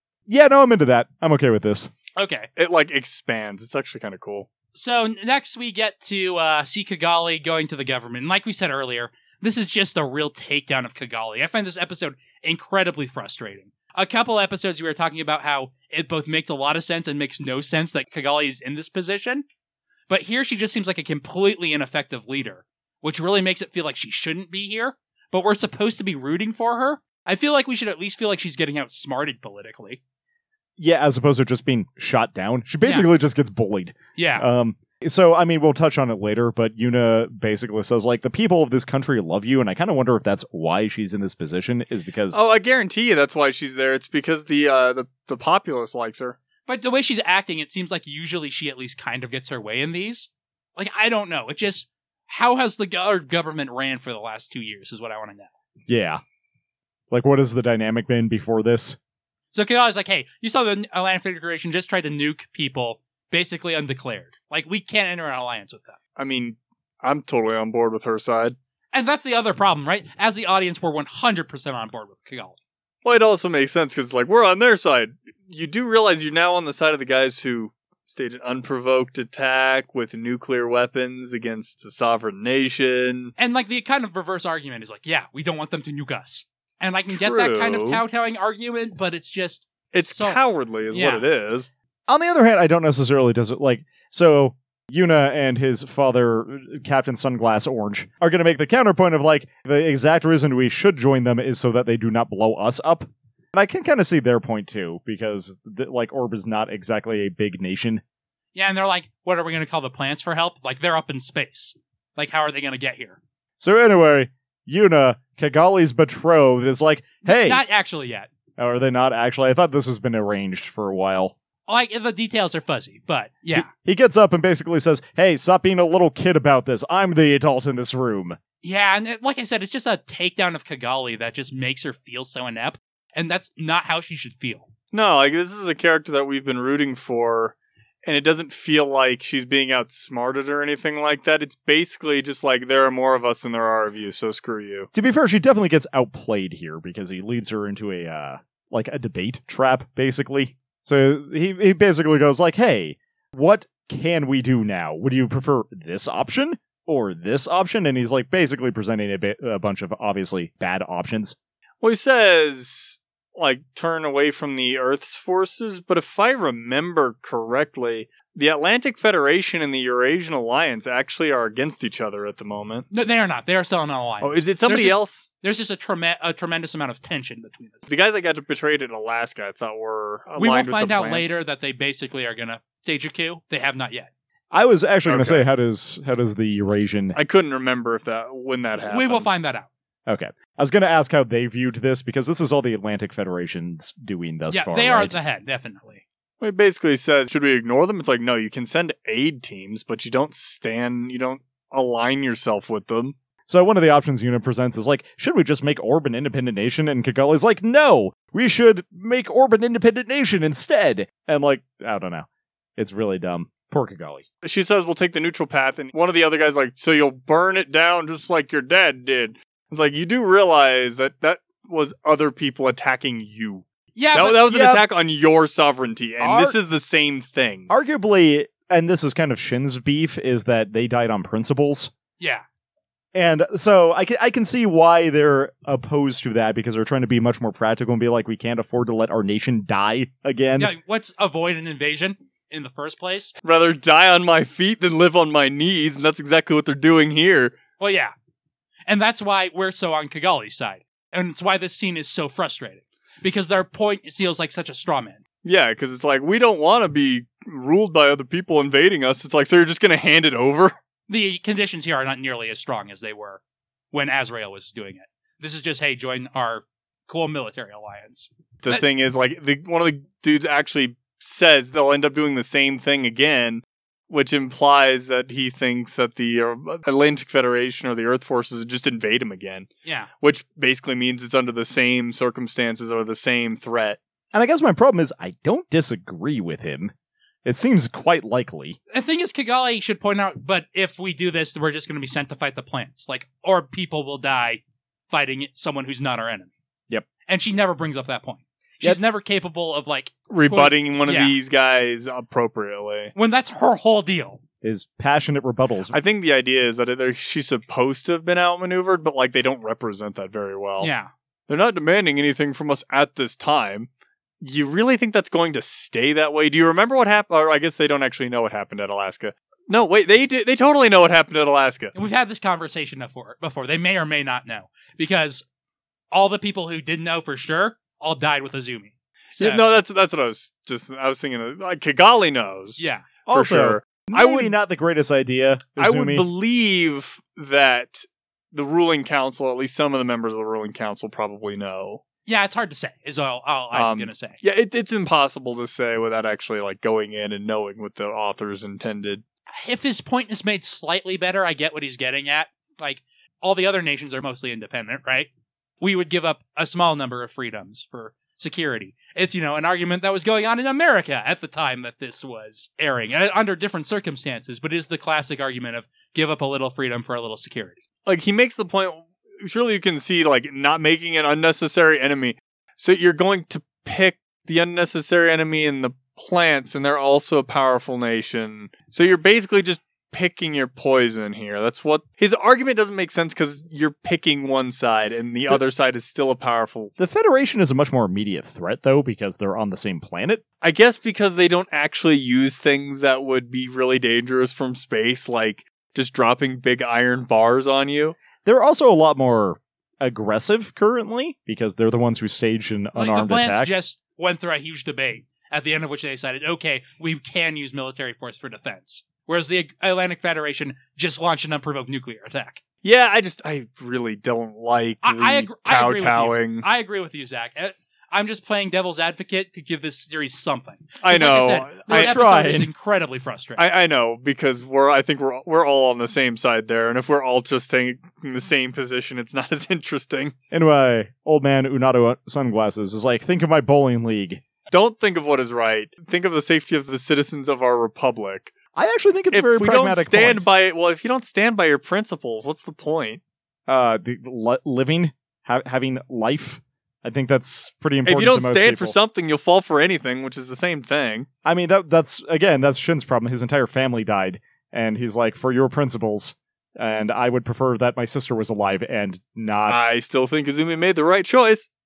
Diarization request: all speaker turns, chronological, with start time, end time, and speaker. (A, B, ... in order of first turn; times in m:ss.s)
0:00.3-0:01.9 A
0:02.2-0:02.5 B
0:02.6-0:04.5 C
0:04.8-0:19.4 B
0:20.1-0:30.0 B
0:30.8-0:42.4 A
0:32.8-0:33.1 B
0:34.2-0:34.4 B
0:42.3-0:46.4 C
0:46.7-0:55.5 B
0:55.9-0:56.2 A
0:57.1-0:59.0 A
0:59.5-1:06.0 B
1:06.2-1:08.6 C
1:08.9-1:12.6 B
1:13.0-1:23.3 C
1:23.4-1:30.4 B
1:27.1-1:28.0 C
1:29.9-1:31.7 C
1:30.9-1:31.2 B
1:32.1-1:48.0 A
1:48.6-1:53.2 B
1:53.6-1:57.6 A
1:57.2-1:58.3 B
1:58.6-2:01.3 A
2:01.7-2:03.7 B
2:03.6-2:08.4 A
2:08.6-2:14.7 B
2:14.9-2:24.9 C
2:24.9-2:41.4 A
2:41.8-2:52.9 C
2:52.9-2:57.9 B
2:54.2-2:55.3 C
2:57.9-3:01.4 C
3:00.4-3:04.1 B
3:04.5-3:07.2 A
3:05.1-3:05.4 C
3:07.1-3:09.3 C
3:08.9-3:09.7 B
3:10.1-3:15.2 A
3:14.5-3:16.0 B
3:16.4-3:23.1 C
3:23.5-3:34.2 A
3:34.4-3:47.7 C
3:43.9-3:44.4 B
3:44.4-3:44.8 A
3:46.2-3:46.6 A
3:47.7-3:51.9 A
3:53.1-4:00.7 A
4:00.6-4:03.3 B
4:03.4-4:07.6 C
4:07.8-4:08.1 B
4:08.9-4:15.2 B
4:15.4-4:20.7 C
4:21.1-4:23.4 B
4:23.9-4:28.8 B
4:28.6-4:39.7 C
4:39.8-4:40.1 B
4:40.2-4:44.0 C
4:44.3-4:46.9 A
4:47.4-4:48.8 A
4:48.9-4:56.5 B
4:57.2-5:01.4 B
5:00.3-5:03.1 C
5:03.1-5:04.4 B
5:04.6-5:06.0 A
5:05.9-5:10.9 C
5:10.8-5:11.1 B
5:11.5-5:13.9 C
5:14.4-5:21.9 C
5:21.9-5:25.4 B
5:26.1-5:29.6 B
5:29.4-5:34.5 C
5:32.8-5:33.1 B
5:33.3-5:36.2 A
5:35.8-5:42.0 C
5:42.2-5:44.4 B
5:43.7-5:49.2 C
5:49.6-5:55.3 B
5:55.8-6:07.8 B
6:08.1-6:26.9 C
6:27.0-6:30.4 A
6:30.6-6:38.2 C
6:38.4-6:43.7 A
6:43.0-6:52.6 B
6:52.8-6:56.6 C
6:55.0-7:03.6 B
7:01.0-7:02.2 C
7:01.9-7:02.7 A
7:03.6-7:10.3 C
7:10.5-7:14.4 A
7:14.7-7:18.5 C
7:18.7-7:20.4 A
7:19.3-7:23.2 C
7:23.7-7:28.9 A
7:28.0-7:31.3 C
7:31.4-7:39.9 A
7:39.7-7:41.7 C